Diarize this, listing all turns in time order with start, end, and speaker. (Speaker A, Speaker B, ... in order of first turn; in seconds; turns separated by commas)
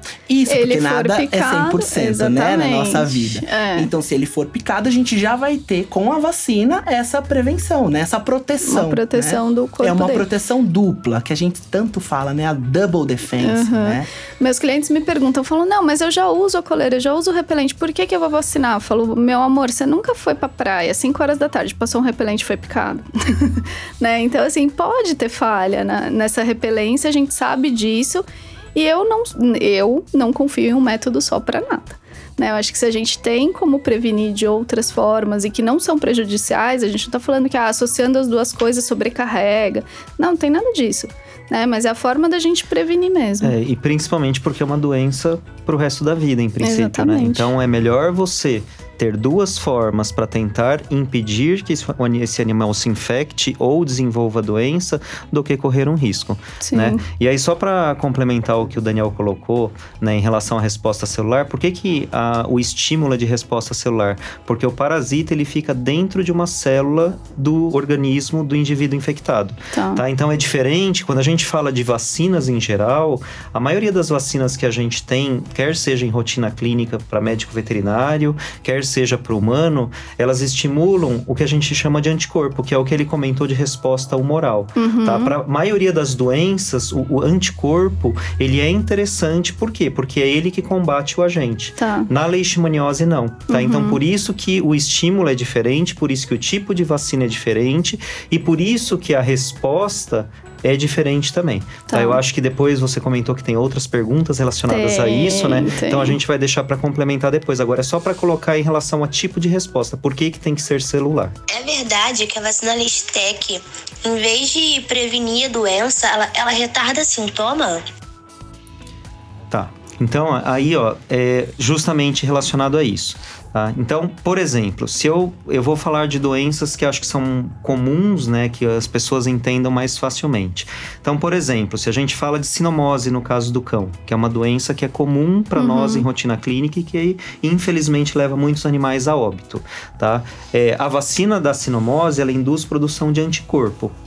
Speaker A: 0.3-14.1, Speaker B: 0.5-3.9, Speaker B: 8.6-10.3, Speaker B: 13.4-43.5, Speaker C: 43.4-111.4, Speaker B: 46.6-47.5, Speaker B: 56.6-57.0, Speaker B: 69.7-70.0, Speaker B: 84.8-85.3, Speaker B: 91.8-92.1, Speaker B: 93.5-94.0, Speaker B: 101.9-102.2, Speaker B: 104.7-106.2, Speaker D: 111.5-117.8, Speaker C: 119.5-143.9, Speaker B: 135.6-136.0